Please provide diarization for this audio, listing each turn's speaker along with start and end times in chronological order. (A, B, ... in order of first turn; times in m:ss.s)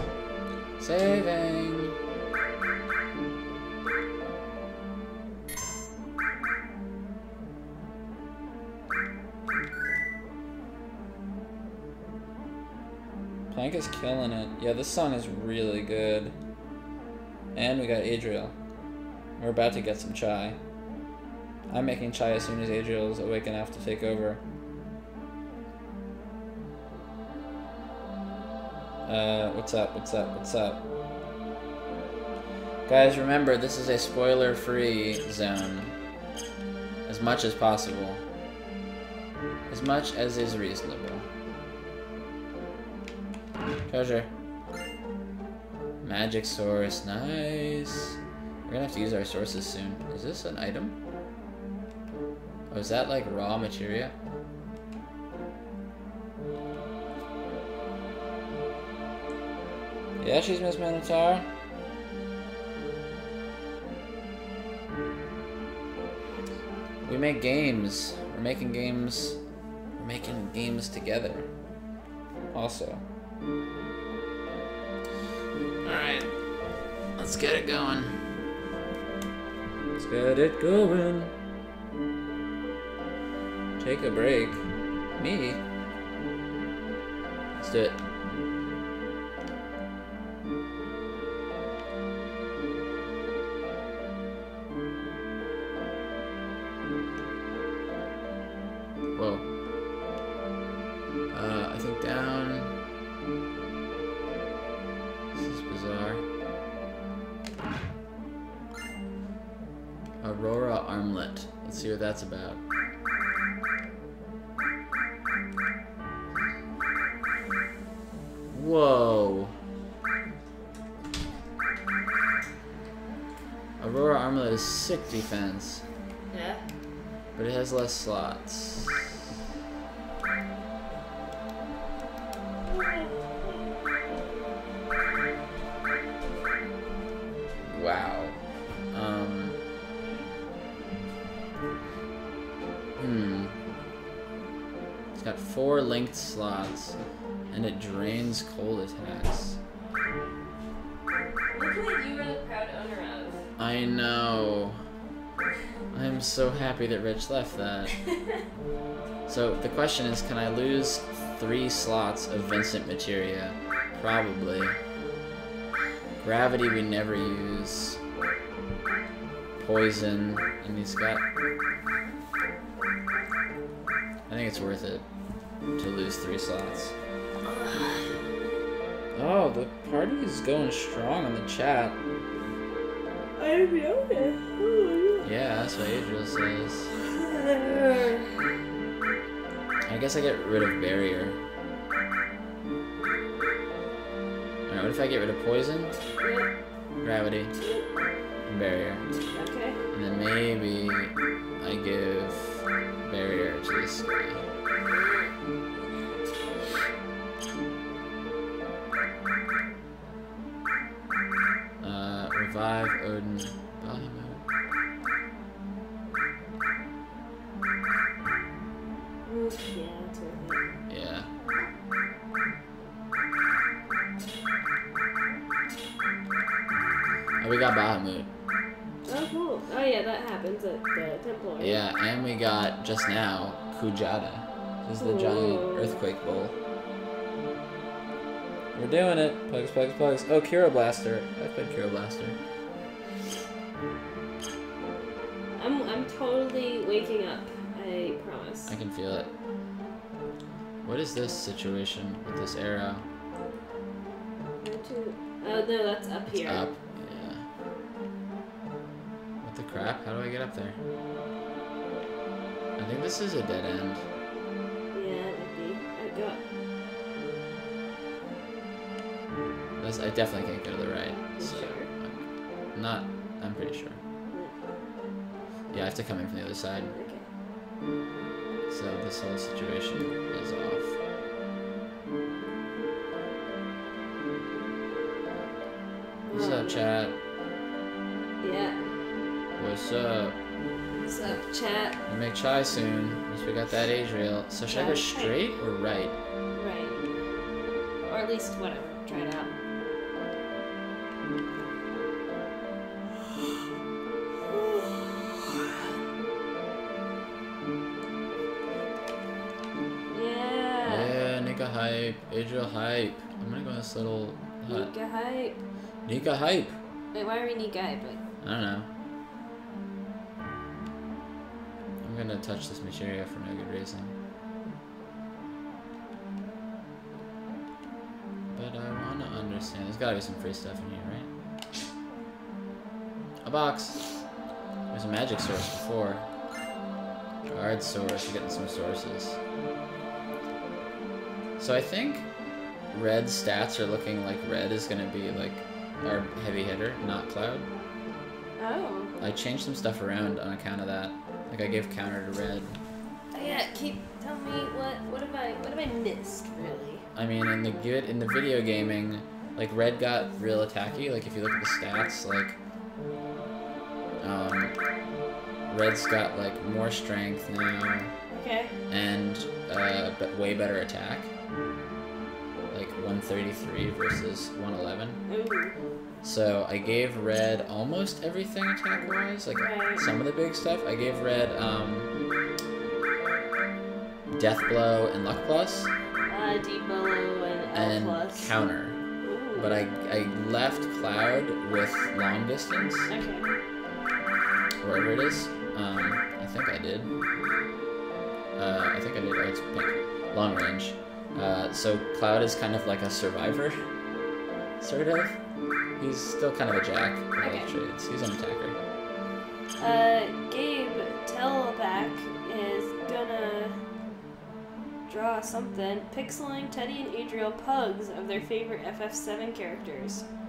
0:00.8-0:02.0 A
0:13.5-0:16.4 A
0:17.6-0:18.6 A
0:19.4-0:20.6 A
0:21.7-0:24.4 A
0:29.1-0:30.8 A
0:32.9-0:36.0 A
0:37.1-0:38.2 A
0:39.7-0:41.3 A
0:43.9-0:44.3 A
0:46.0-0:51.0 A
0:52.7-0:54.2 A
1:00.2-1:01.5 A
1:07.0-1:09.4 A
1:10.0-1:11.5 A
1:12.5-1:13.0 A
1:15.8-1:16.3 A
1:17.2-1:18.3 A
1:20.0-1:21.3 A
1:23.8-1:24.6 A
1:25.2-1:25.6 A
1:27.6-1:28.0 A
1:39.2-1:39.4 A
1:41.3-1:42.8 A
1:45.4-1:46.2 A
1:50.2-1:52.6 A
1:58.5-1:59.5 A
2:03.8-2:05.8 A
2:06.3-2:06.6 B
2:07.4-2:09.2 A
2:12.7-2:13.3 B
2:17.6-2:18.4 A
2:18.9-2:19.6 A
2:23.0-2:23.6 A
2:25.2-2:27.0 A
2:27.5-2:29.6 A
2:31.5-2:33.4 B
2:33.6-2:34.8 A
2:35.9-2:38.0 A
2:38.0-2:38.4 B
2:39.3-2:44.8 A
2:46.2-2:48.0 A
2:49.6-2:51.3 A
2:54.3-2:55.0 A
2:55.8-2:57.0 A
2:57.4-2:58.2 B
2:59.2-3:02.0 A
3:03.4-3:05.3 B
3:05.2-3:06.9 A
3:07.0-3:08.5 B
3:09.9-3:11.4 A
3:14.7-3:16.0 A
3:16.2-3:16.5 B
3:17.0-3:17.6 A
3:17.6-3:17.9 B
3:18.5-3:19.1 A
3:19.3-3:19.8 B
3:19.9-3:24.5 A
3:24.9-3:26.0 B
3:31.8-3:34.4 A
3:39.2-3:40.7 B
3:40.9-3:41.3 A
3:47.4-3:48.3 A
3:49.1-3:51.8 B
3:51.6-3:56.5 A
3:55.0-3:56.0 B
3:58.8-4:02.4 A
4:05.6-4:08.7 B
4:08.7-4:09.3 A
4:10.8-4:13.1 A
4:14.6-4:16.7 B
4:16.3-4:17.4 A
4:19.4-4:20.8 A
4:22.8-4:24.1 A
4:24.9-4:26.4 B
4:29.8-4:32.2 A
4:31.4-4:31.9 B
4:32.8-4:34.0 A
4:34.3-4:34.6 B
4:35.7-4:36.9 A
4:36.8-4:37.3 B
4:38.7-4:41.0 A
4:46.3-4:46.9 B
4:46.3-4:47.2 A
4:48.4-4:48.8 B
4:49.6-4:50.4 A
4:51.1-4:52.0 B
4:52.1-4:56.2 A
4:54.7-4:55.4 B
4:56.6-4:57.0 B
4:58.1-4:59.5 B
5:04.5-5:05.7 B
5:10.1-5:11.1 B
5:10.8-5:14.9 A
5:14.7-5:15.6 B
5:16.1-5:16.7 A
5:17.1-5:18.2 B
5:18.4-5:18.9 A
5:22.0-5:24.1 A
5:28.5-5:31.3 A
5:33.4-5:34.2 A
5:34.9-5:36.3 A
5:37.5-5:39.4 A
5:41.6-5:42.3 A
5:42.9-5:47.7 A
5:48.6-5:49.2 B
5:49.2-5:52.8 A
5:53.3-5:57.0 B
5:57.2-6:02.6 A
6:04.2-6:04.8 A
6:05.7-6:08.1 A
6:08.3-6:08.8 B
6:08.9-6:11.3 A
6:12.7-6:15.2 A
6:15.3-6:15.8 B
6:16.2-6:22.1 A
6:19.6-6:20.1 B
6:24.3-6:25.9 A
6:26.3-6:28.5 B
6:27.7-6:29.0 A
6:29.2-6:29.8 B
6:29.6-6:33.1 A
6:33.1-6:33.6 B
6:34.8-6:37.2 A
6:38.6-6:43.8 A
6:44.8-6:45.4 A
6:46.0-6:48.8 A
6:47.4-6:47.7 B
6:49.8-6:53.7 B
6:55.1-7:00.2 B